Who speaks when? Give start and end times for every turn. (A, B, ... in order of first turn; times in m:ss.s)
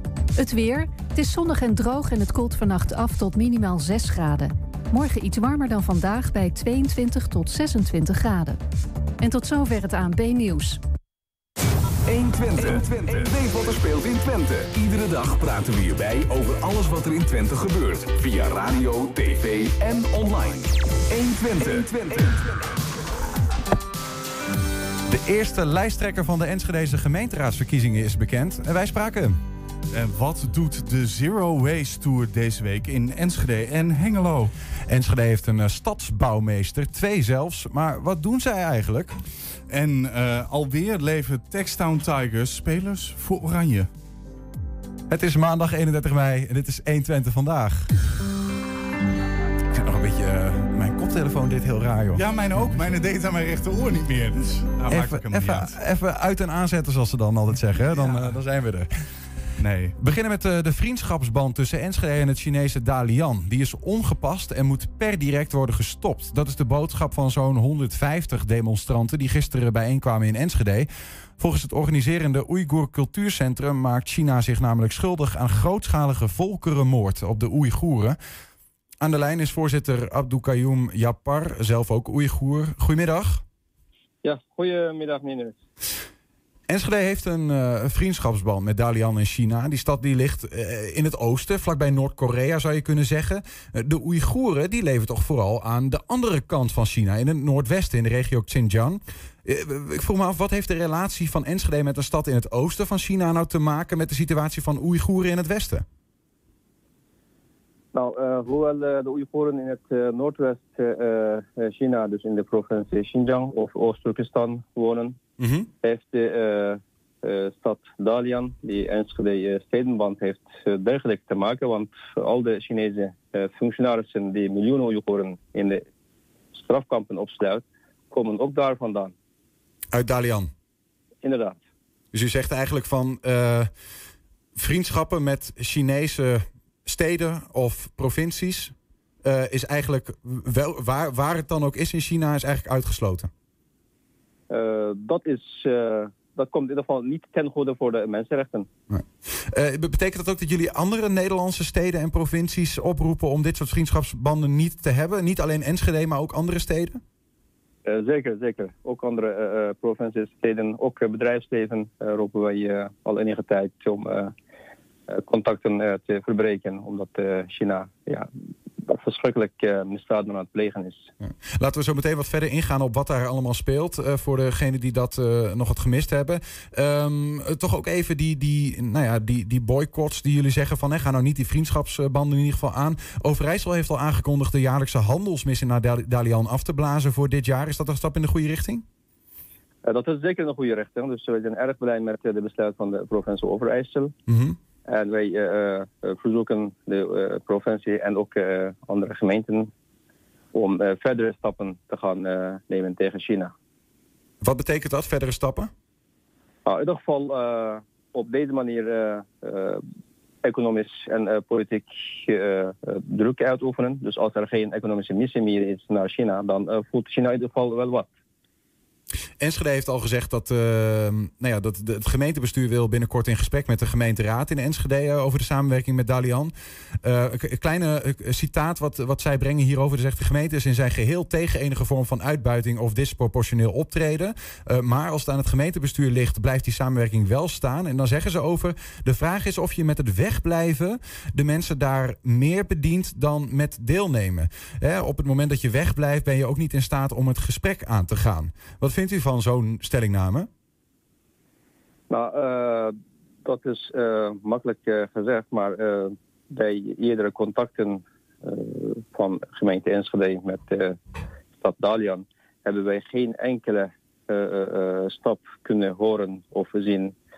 0:00.4-0:08.6 A
0:09.2-0:10.8 A
0:12.1-0:22.5 B
0:25.0-0:29.4 C
0:29.9-0:34.5 D
0:34.8-0:39.2 C
0:39.7-0:43.9 D
0:45.1-0:47.9 C
0:49.7-0:52.9 C
0:52.2-0:55.7 D
0:54.9-0:58.9 C
0:58.0-0:58.3 D
0:59.6-1:00.0 D
1:00.0-1:18.2 C
1:19.0-1:23.4 C
1:24.2-1:25.6 E
1:26.7-1:45.8 C
1:47.9-1:55.2 E
1:55.4-1:55.7 C
1:55.8-2:05.8 E
2:06.5-2:09.1 E
2:09.9-2:10.5 C
2:11.2-2:11.6 E
2:12.1-2:13.7 C
2:14.6-2:18.7 C
2:19.2-2:23.3 C
2:24.5-2:28.7 E
2:28.9-2:37.0 C
2:37.8-2:44.3 E
2:45.1-2:48.3 E
2:48.8-2:51.1 E
2:51.6-3:08.8 C
3:09.8-3:14.1 E
3:14.3-3:14.6 C
3:14.9-3:19.7 E
3:20.5-3:23.5 E
3:24.4-3:25.7 C
3:26.7-3:29.8 E
3:30.4-3:38.1 E
3:39.4-4:10.5 C
4:12.1-4:21.0 E
4:21.6-4:27.1 E